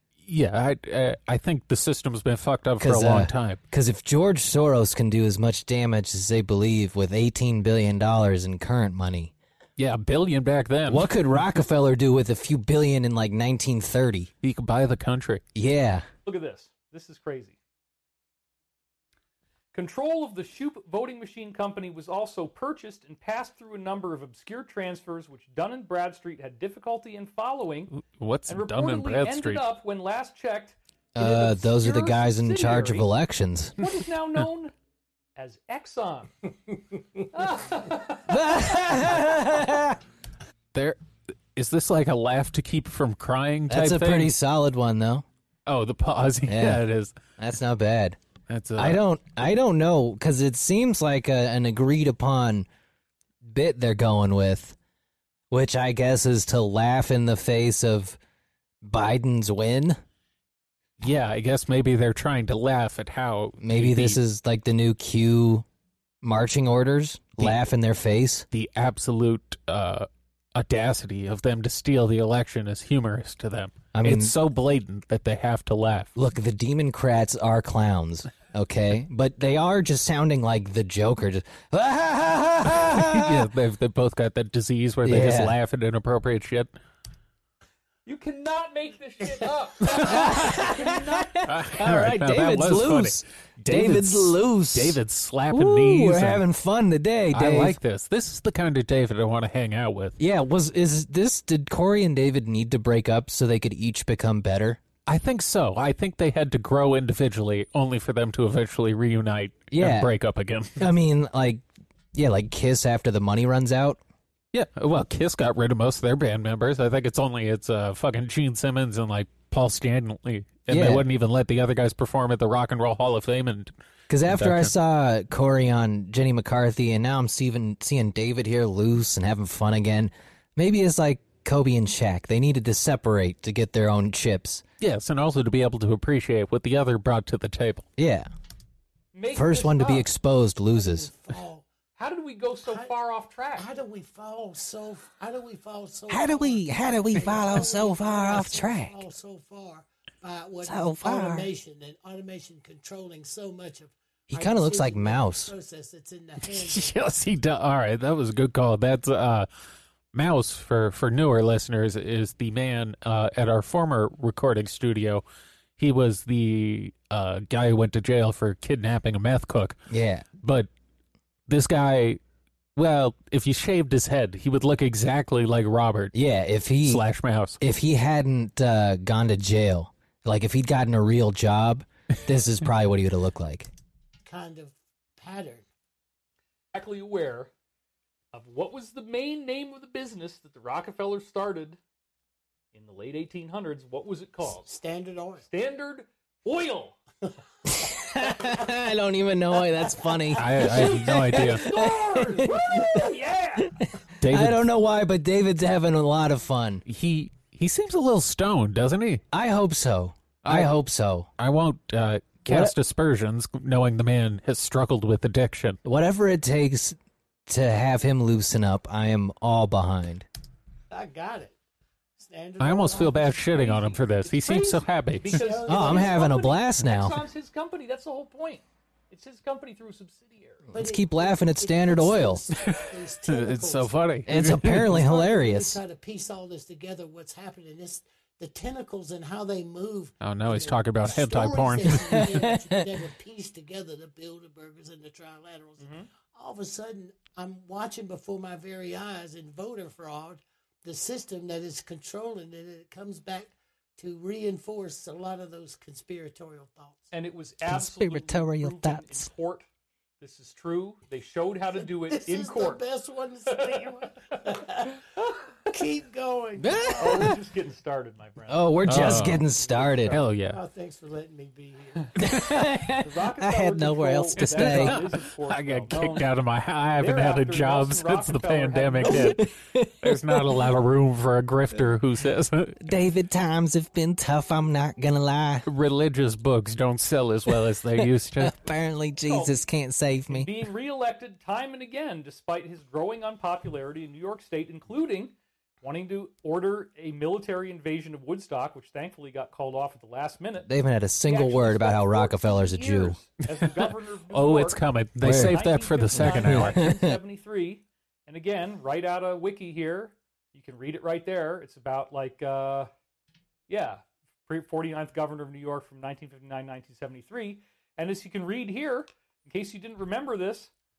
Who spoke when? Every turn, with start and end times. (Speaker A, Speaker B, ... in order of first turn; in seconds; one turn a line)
Speaker A: 0.2-3.6
Speaker B: 2.8-9.3
Speaker A: 9.8-11.1
Speaker B: 10.9-14.3
Speaker A: 14.4-15.4
Speaker B: 15.5-16.1
Speaker C: 16.2-17.6
Speaker C: 19.7-27.9
Speaker A: 27.9-29.6
Speaker C: 28.5-33.1
Speaker B: 31.1-33.8
Speaker C: 33.8-34.7
Speaker C: 35.4-36.4
Speaker C: 37.3-39.3
Speaker B: 38.3-40.0
Speaker A: 40.7-41.0
Speaker A: 41.5-44.3
Speaker B: 43.7-45.2
Speaker A: 45.6-47.1
Speaker B: 46.5-46.8
Speaker B: 47.4-48.2
Speaker A: 48.5-49.0
Speaker B: 48.8-52.7
Speaker B: 53.4-54.8
Speaker B: 55.5-58.2
Speaker B: 58.8-60.0
Speaker A: 61.0-64.2
Speaker B: 63.6-65.6
Speaker B: 66.2-68.5
Speaker A: 68.5-76.1
Speaker B: 73.9-74.3
Speaker B: 76.2-83.5
Speaker A: 82.9-86.7
Speaker B: 85.0-85.5
Speaker C: 88.0-91.3
Speaker B: 89.9-95.0
Speaker A: 91.4-96.4
Speaker B: 95.5-97.8
Speaker A: 97.3-100.2
Speaker B: 100.2-104.8
Speaker A: 105.0-110.8
Speaker B: 109.7-110.1
Speaker B: 110.8-114.0
Speaker A: 114.5-123.7
Speaker B: 120.7-121.0
Speaker B: 124.1-134.6
Speaker A: 124.3-124.7
Speaker A: 134.8-137.8
Speaker B: 138.0-138.3
Speaker C: 139.1-140.1
Speaker B: 139.3-141.1
Speaker D: 140.7-141.7
Speaker C: 141.9-143.7
Speaker D: 142.7-142.9
Speaker D: 143.6-156.9
Speaker B: 146.1-148.9
Speaker B: 150.6-151.5
Speaker B: 154.3-155.5
Speaker A: 156.4-159.5
Speaker A: 160.1-165.2
Speaker A: 165.8-169.8
Speaker B: 169.9-170.2
Speaker A: 170.4-170.7
Speaker A: 171.5-172.2
Speaker A: 172.8-176.1
Speaker B: 176.1-177.0
Speaker A: 176.8-177.6
Speaker B: 177.6-183.7
Speaker D: 184.2-185.6
Speaker C: 186.7-187.5
Speaker C: 188.3-191.8
Speaker C: 192.7-194.7
Speaker D: 194.6-195.4
Speaker C: 195.5-197.0
Speaker B: 197.7-206.8
Speaker D: 198.2-198.6
Speaker D: 199.8-200.7
Speaker A: 200.3-201.6
Speaker C: 200.8-203.8
Speaker D: 201.8-203.0
Speaker A: 204.2-204.6
Speaker A: 206.8-209.2
Speaker B: 209.3-211.3
Speaker A: 210.4-210.7
Speaker A: 211.4-215.8
Speaker B: 212.4-212.7
Speaker B: 215.8-220.2
Speaker D: 220.9-221.5
Speaker D: 222.2-223.8
Speaker A: 222.6-225.4
Speaker C: 223.5-230.7
Speaker D: 225.3-226.6
Speaker B: 225.7-227.2
Speaker B: 230.7-232.4
Speaker D: 230.7-257.1
Speaker A: 232.6-235.0
Speaker B: 234.3-235.8
Speaker A: 240.2-242.4
Speaker B: 242.1-242.9
Speaker C: 245.8-246.1
Speaker C: 257.1-259.6
Speaker B: 257.6-259.3
Speaker C: 260.2-262.8
Speaker D: 261.7-265.1
Speaker C: 263.5-264.4
Speaker D: 265.6-267.4
Speaker B: 266.6-267.4
Speaker C: 267.0-269.2
Speaker B: 268.5-270.2
Speaker A: 268.9-269.4
Speaker D: 269.6-272.4
Speaker A: 270.1-270.6
Speaker B: 272.2-275.1
Speaker C: 272.9-276.3
Speaker A: 274.4-279.5
Speaker C: 277.0-279.4
Speaker B: 279.0-280.6
Speaker A: 280.0-282.8
Speaker B: 282.8-285.6
Speaker A: 285.6-288.5
Speaker B: 288.0-290.5
Speaker C: 289.2-289.6
Speaker C: 290.3-300.7
Speaker B: 300.6-303.2
Speaker C: 301.2-312.9
Speaker A: 303.5-306.8
Speaker B: 305.2-305.6
Speaker B: 306.1-307.2
Speaker C: 313.7-320.7